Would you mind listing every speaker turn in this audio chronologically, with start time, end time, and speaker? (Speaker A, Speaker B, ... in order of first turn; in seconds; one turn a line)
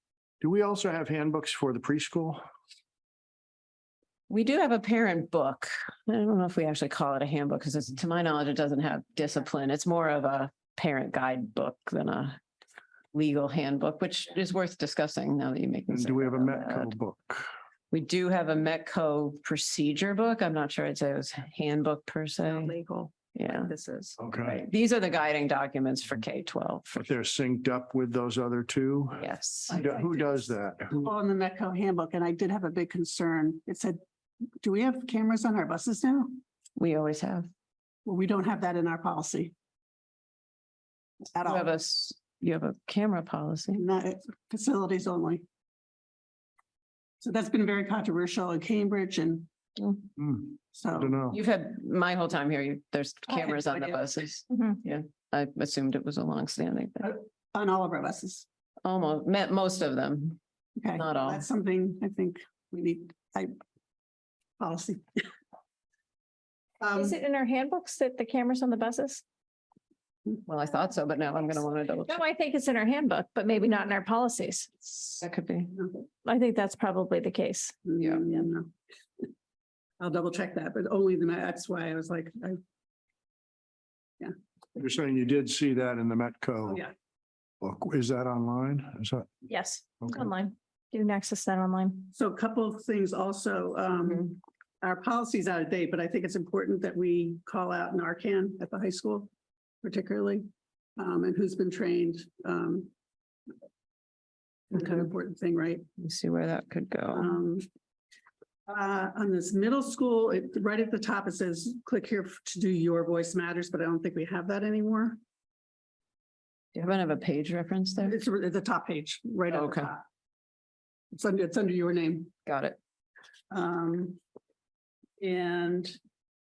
Speaker A: 0.4-2.4
Speaker B: 4.3-12.4
Speaker B: 13.1-16.9
Speaker A: 15.9-17.5
Speaker B: 17.9-22.7
Speaker C: 22.5-23.1
Speaker B: 23.3-23.7
Speaker C: 23.7-24.2
Speaker A: 24.2-24.6
Speaker B: 24.4-27.0
Speaker A: 26.9-31.1
Speaker B: 29.2-29.8
Speaker C: 29.7-34.0
Speaker C: 34.6-36.4
Speaker B: 36.8-37.5
Speaker C: 38.1-39.5
Speaker C: 41.4-41.7
Speaker B: 41.4-43.8
Speaker C: 43.8-45.4
Speaker C: 47.2-49.5
Speaker A: 50.2-51.4
Speaker C: 50.7-51.2
Speaker B: 51.3-57.1
Speaker C: 53.3-54.0
Speaker D: 54.5-54.8
Speaker C: 57.0-58.5
Speaker B: 58.9-60.4
Speaker C: 60.8-63.5
Speaker B: 61.0-61.5
Speaker C: 64.6-65.3
Speaker C: 66.8-67.2
Speaker D: 66.9-69.2
Speaker B: 70.5-72.2
Speaker D: 72.1-74.7
Speaker B: 75.0-75.8
Speaker D: 76.2-77.8
Speaker C: 77.9-78.7
Speaker C: 80.0-82.6
Speaker A: 84.8-86.8
Speaker A: 87.6-89.3
Speaker D: 89.5-92.1
Speaker A: 90.0-90.3
Speaker C: 92.1-99.3
Speaker C: 99.8-102.9
Speaker C: 104.7-105.9
Speaker B: 104.8-105.0
Speaker B: 106.0-107.3
Speaker C: 107.1-107.7
Speaker C: 108.7-115.2
Speaker B: 116.7-118.2
Speaker C: 118.0-120.0
Speaker B: 119.5-119.9
Speaker C: 121.1-122.3
Speaker B: 122.5-122.8
Speaker C: 123.5-124.2
Speaker C: 125.2-126.0